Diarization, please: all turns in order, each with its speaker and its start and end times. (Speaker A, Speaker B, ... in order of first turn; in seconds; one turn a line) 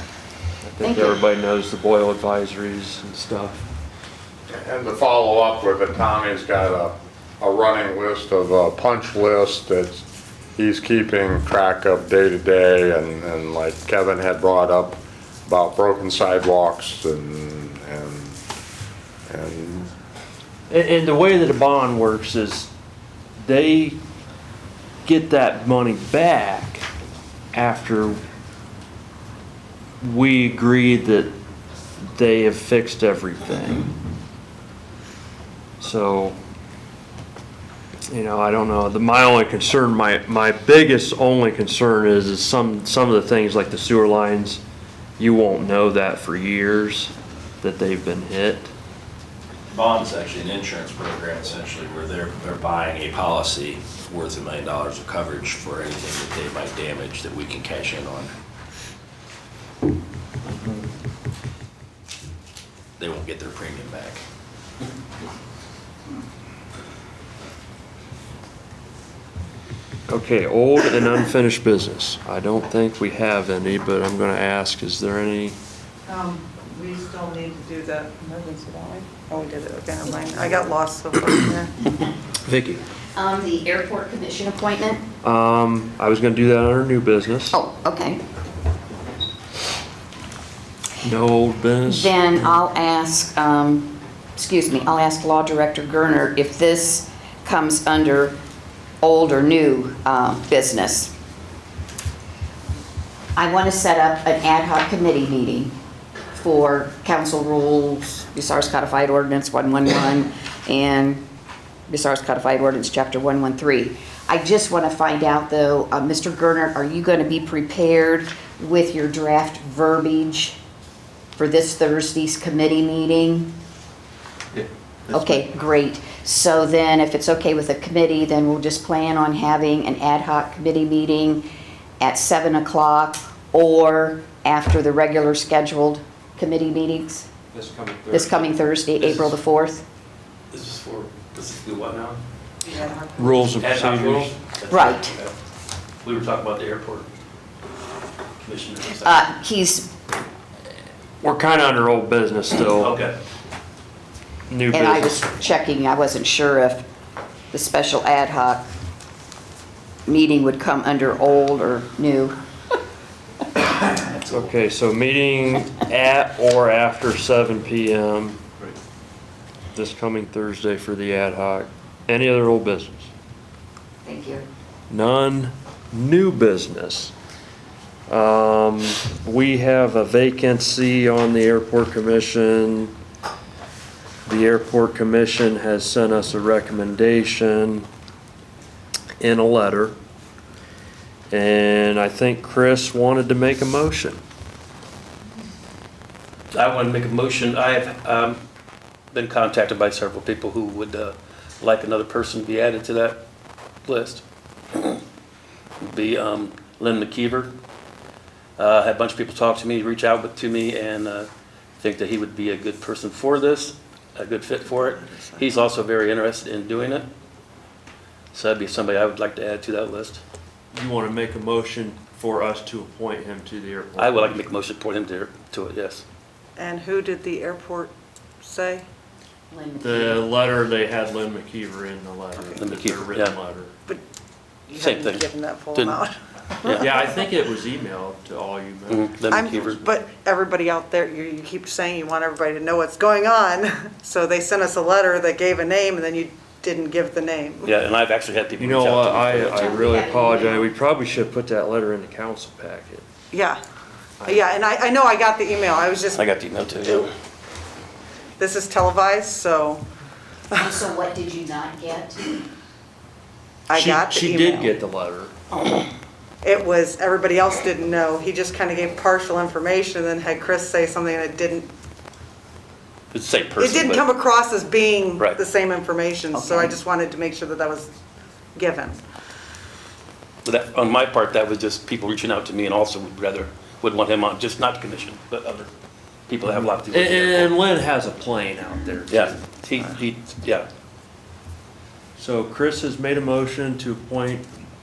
Speaker A: 0.6-3.7
Speaker B: 0.8-1.2
Speaker C: 4.5-10.1
Speaker C: 10.6-18.4
Speaker C: 19.3-19.9
Speaker A: 20.7-22.7
Speaker A: 23.4-24.0
Speaker A: 25.1-26.9
Speaker A: 27.5-28.2
Speaker A: 30.0-31.3
Speaker A: 32.1-33.9
Speaker A: 35.8-36.4
Speaker A: 38.1-44.6
Speaker A: 45.2-48.7
Speaker D: 49.7-58.3
Speaker D: 63.0-64.2
Speaker A: 70.1-75.6
Speaker E: 76.1-81.7
Speaker F: 82.5-82.8
Speaker B: 83.1-85.0
Speaker A: 85.2-87.6
Speaker B: 87.5-88.2
Speaker A: 91.0-92.1
Speaker B: 91.9-98.4
Speaker B: 99.0-101.1
Speaker B: 103.4-105.7
Speaker B: 106.3-111.2
Speaker B: 111.9-120.6
Speaker B: 121.3-123.5
Speaker F: 124.5-125.4
Speaker B: 125.1-131.4
Speaker B: 132.0-137.3
Speaker A: 137.5-138.6
Speaker B: 138.1-139.8
Speaker F: 139.0-139.3
Speaker F: 140.5-142.2
Speaker E: 142.8-143.0
Speaker A: 143.2-144.3
Speaker F: 143.5-145.3
Speaker B: 144.7-145.1
Speaker F: 146.0-147.1
Speaker F: 148.4-149.3
Speaker B: 149.0-149.9
Speaker A: 151.2-153.0
Speaker F: 152.7-153.2
Speaker A: 154.5-155.2
Speaker B: 154.7-156.8
Speaker B: 157.5-158.7
Speaker B: 160.1-162.4
Speaker A: 164.3-168.4
Speaker A: 169.7-173.1
Speaker B: 174.0-174.4
Speaker A: 174.9-177.1
Speaker A: 178.1-182.9
Speaker A: 184.2-187.9
Speaker A: 189.2-190.0
Speaker A: 191.3-194.2
Speaker F: 196.5-198.4
Speaker F: 199.1-203.2
Speaker F: 203.9-204.2
Speaker F: 205.8-207.5
Speaker F: 208.6-217.1
Speaker E: 214.8-215.5
Speaker F: 218.3-220.2
Speaker A: 220.7-224.5
Speaker F: 224.0-226.0
Speaker E: 226.6-227.9
Speaker E: 228.4-228.8
Speaker B: 229.5-230.3
Speaker A: 229.8-233.7
Speaker F: 232.5-233.4
Speaker E: 234.7-236.1
Speaker F: 234.7-236.0
Speaker F: 236.6-236.9
Speaker A: 236.8-239.2
Speaker F: 238.9-239.8
Speaker E: 239.3-247.7
Speaker F: 247.7-249.7
Speaker A: 248.6-253.0
Speaker B: 249.5-250.7
Speaker E: 253.3-253.6
Speaker E: 254.3-256.2
Speaker F: 256.1-257.1
Speaker E: 258.4-259.8
Speaker B: 260.5-262.3
Speaker E: 263.7-264.6
Speaker A: 263.7-265.3
Speaker E: 266.4-271.7
Speaker F: 273.1-274.0
Speaker E: 273.6-277.9
Speaker B: 276.3-276.7
Speaker E: 278.5-279.0
Speaker F: 280.4-285.7
Speaker F: 286.3-287.5
Speaker A: 286.5-289.3
Speaker F: 289.1-290.7
Speaker A: 292.1-294.5